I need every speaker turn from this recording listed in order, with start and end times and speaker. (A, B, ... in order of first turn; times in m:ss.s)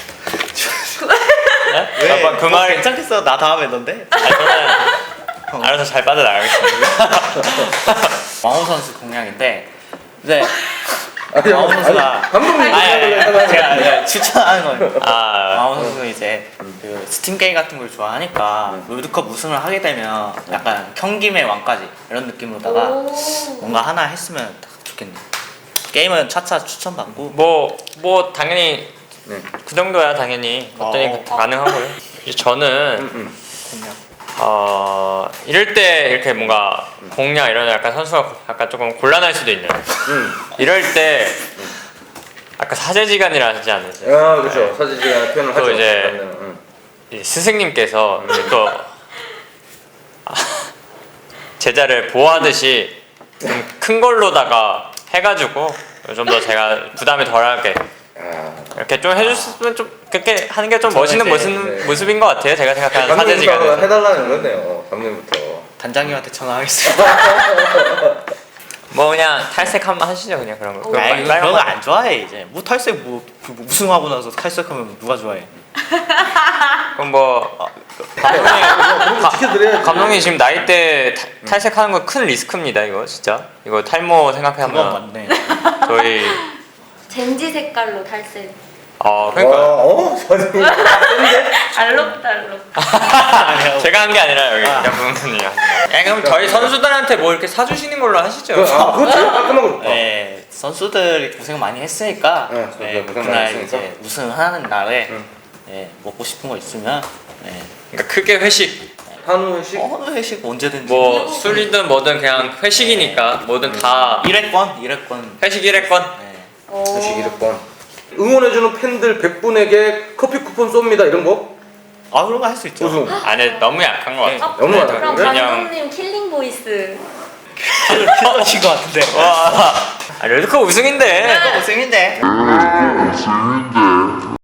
0:00.4-0:01.0 A
0:01.0-0:01.8 B
0:01.7-0:02.9 C
0:01.9-0:04.6 A
0:04.2-0:05.0 C
0:05.5-0:05.8 A
0:05.6-0:08.2 C
0:06.8-0:07.7 A
0:08.4-0:25.2 A
0:11.3-0:14.2 D
0:15.0-0:15.7 C
0:22.6-0:23.8 B
0:25.9-0:27.4 A
0:27.3-0:29.0 C
0:29.5-0:33.1 C
0:30.8-0:31.4 A
0:31.3-0:31.8 B
0:33.0-0:33.4 D
0:33.6-0:34.0 A
0:34.4-0:41.5 C
0:40.1-0:40.5 D
0:42.6-0:46.2 C
0:44.0-0:46.6 D
0:47.1-0:49.0 C
0:48.2-0:48.6 D
0:50.3-0:50.7 C
0:51.6-0:57.8 C
0:58.2-0:58.8 D
0:58.8-1:04.0 C
0:59.2-0:59.6 A
1:00.8-1:02.2 A
1:01.6-1:02.0 D
1:02.9-1:05.7 D
1:04.1-1:04.7 A
1:05.8-1:07.9 A
1:07.0-1:08.1 D
1:08.9-1:11.8 C
1:10.9-1:11.3 B
1:10.9-1:15.5 A
1:16.1-1:16.5 B
1:16.9-1:17.7 C
1:17.6-1:18.5 A
1:18.2-1:25.0 C
1:18.2-1:20.4 D
1:24.6-1:25.6 A
1:25.3-1:26.5 B
1:25.7-1:26.5 C
1:27.1-1:28.6 B
1:29.0-1:29.8 C
1:29.3-1:31.8 D
1:30.6-1:32.8 B
1:31.8-1:32.2 A
1:32.8-1:39.0 C
1:33.0-1:35.1 A
1:36.1-1:36.8 D
1:38.5-1:40.1 D
1:38.7-1:39.1 A
1:39.8-1:47.7 A
1:42.5-1:43.9 D
1:47.9-1:48.9 C
1:49.2-1:49.9 D
1:49.7-1:51.7 A
1:50.8-1:54.3 C
1:51.0-1:51.7 B
1:52.3-1:56.5 A
1:55.4-1:56.2 C
1:56.7-1:57.5 B
1:56.9-2:01.6 D
2:02.1-2:03.2 A
2:02.8-2:03.3 D
2:03.2-2:05.7 C
2:03.3-2:03.7 B
2:04.2-2:04.6 A
2:04.4-2:07.1 B
2:04.6-2:05.4 D
2:07.6-2:09.4 A
2:07.8-2:08.4 C
2:09.1-2:11.6 C
2:11.2-2:12.2 A
2:11.3-2:11.6 B
2:12.3-2:13.2 D